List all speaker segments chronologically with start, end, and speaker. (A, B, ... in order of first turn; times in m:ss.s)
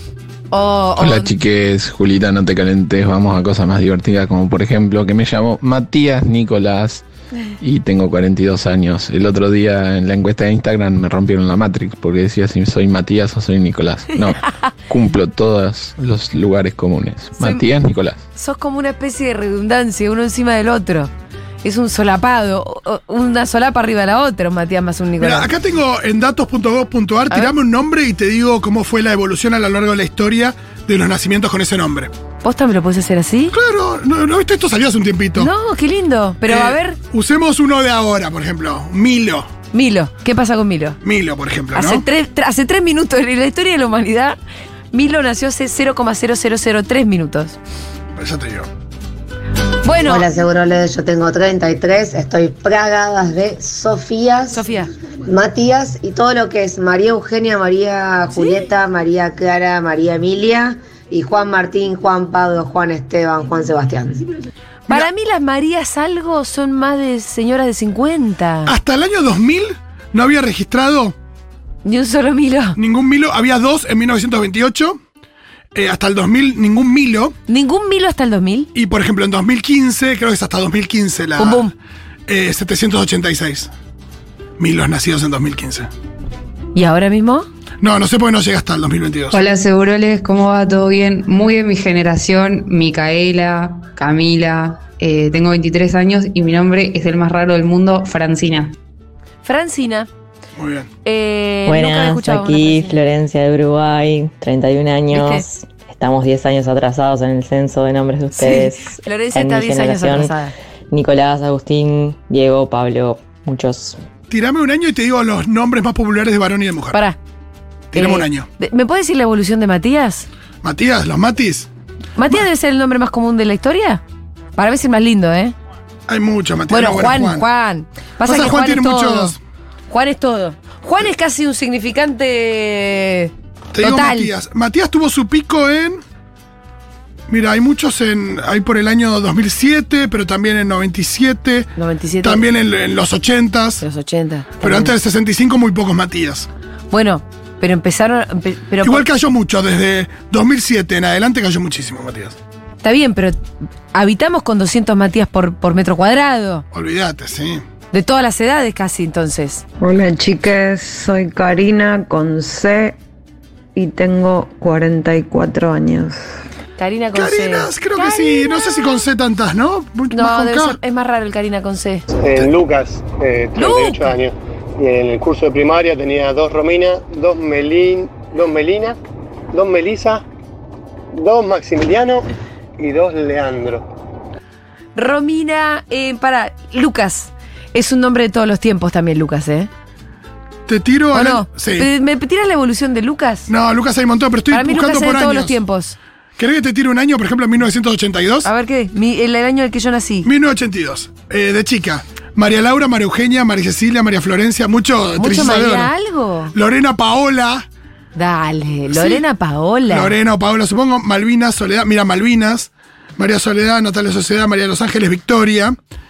0:00.5-0:01.3 A
0:01.0-0:07.0 B
0:07.6-0:18.2 B
0:17.4-0:17.7 A
0:18.4-0:21.1 A
0:21.6-0:25.5 A
0:25.2-0:32.1 C
0:32.4-0:33.6 A
0:33.5-0:35.5 C
0:35.4-0:37.0 A
0:36.5-0:39.5 C
0:39.7-0:41.0 A
0:41.0-0:42.0 C
0:41.7-0:44.4 A
0:44.9-0:47.6 A
0:48.2-0:48.7 C
0:49.8-0:50.3 A
0:50.0-0:54.6 D
0:54.5-0:54.9 A
0:55.2-1:04.2 D
1:04.9-1:08.7 A
1:08.7-1:11.2 C
1:11.8-1:12.8 A
1:12.8-1:15.0 C
1:15.7-1:17.4 C
1:17.5-1:18.7 A
1:18.7-1:21.7 C
1:21.4-1:21.7 A
1:22.3-1:23.7 C
1:24.6-1:25.9 C
1:26.8-1:27.5 A
1:27.8-1:29.4 C
1:29.3-1:38.7 E
1:39.4-1:40.1 A
1:40.6-1:40.9 C
1:41.0-1:43.0 A
1:41.7-1:50.4 F
1:45.1-1:45.4 A
1:48.4-1:50.5 A
1:50.9-1:54.0 F
1:54.3-1:57.0 C
1:57.9-1:58.5 C
1:57.9-2:00.3 A
2:00.6-2:01.7 C
2:02.2-2:04.0 A
2:04.6-2:05.6 A
2:06.1-2:07.4 C
2:06.7-2:09.4 A
2:08.2-2:09.4 C
2:09.9-2:14.3 A
2:13.7-2:16.0 C
2:17.3-2:21.7 C
2:21.8-2:22.4 A
2:22.2-2:23.8 C
2:23.8-2:25.0 A
2:24.6-2:26.5 C
2:26.9-2:29.1 A
2:28.8-2:32.4 C
2:32.8-2:33.4 A
2:33.9-2:36.6 A
2:36.7-2:37.6 C
2:37.9-2:39.6 A
2:39.8-2:43.0 G
2:43.8-2:46.2 G
2:46.8-2:49.0 A
2:47.2-2:50.8 C
2:50.1-2:52.0 A
2:52.2-2:59.0 H
2:53.6-2:54.1 A
2:59.5-3:00.2 H
3:01.1-3:02.2 H
3:02.8-3:03.9 H
3:05.0-3:09.7 A
3:10.7-3:11.9 C
3:11.1-3:13.5 A
3:13.5-3:15.6 C
3:14.5-3:16.0 A
3:16.4-3:18.5 C
3:18.4-3:20.3 A
3:20.2-3:25.9 C
3:25.2-3:26.5 A
3:26.5-3:27.7 C
3:28.2-3:30.1 A
3:28.9-3:29.2 C
3:29.9-3:35.8 C